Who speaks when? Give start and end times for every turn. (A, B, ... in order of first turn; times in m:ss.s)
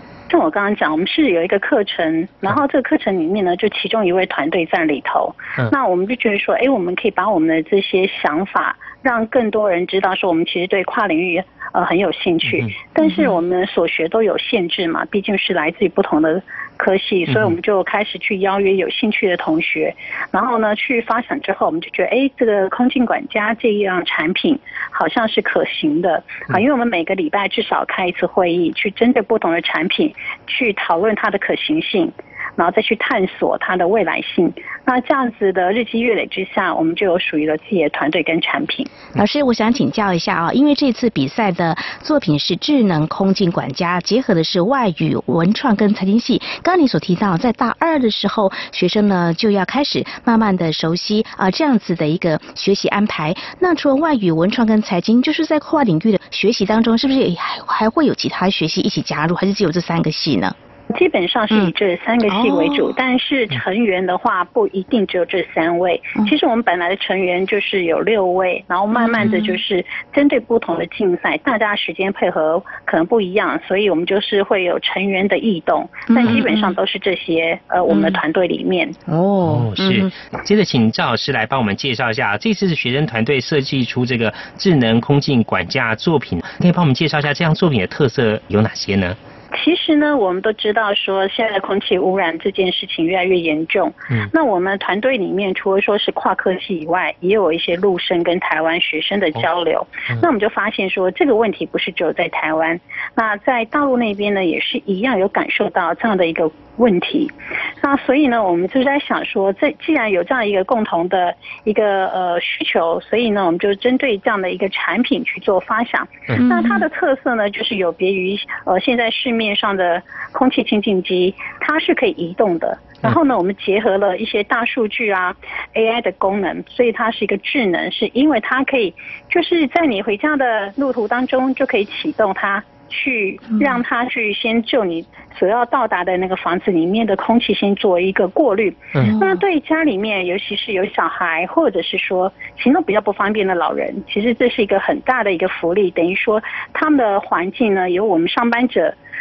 0:00.3-0:38.9 A
0:12.5-0:12.8 B
0:13.0-0:13.3 C
0:17.3-0:17.6 B
0:39.2-1:00.6 C
1:00.9-1:19.0 A
1:02.3-1:02.9 C
1:08.9-1:09.6 C
1:16.1-1:16.7 C
1:17.9-1:18.2 C
1:19.1-1:20.1 C
1:19.4-1:29.2 B
1:29.5-2:28.9 A
1:56.4-1:56.8 C
2:19.0-2:19.4 C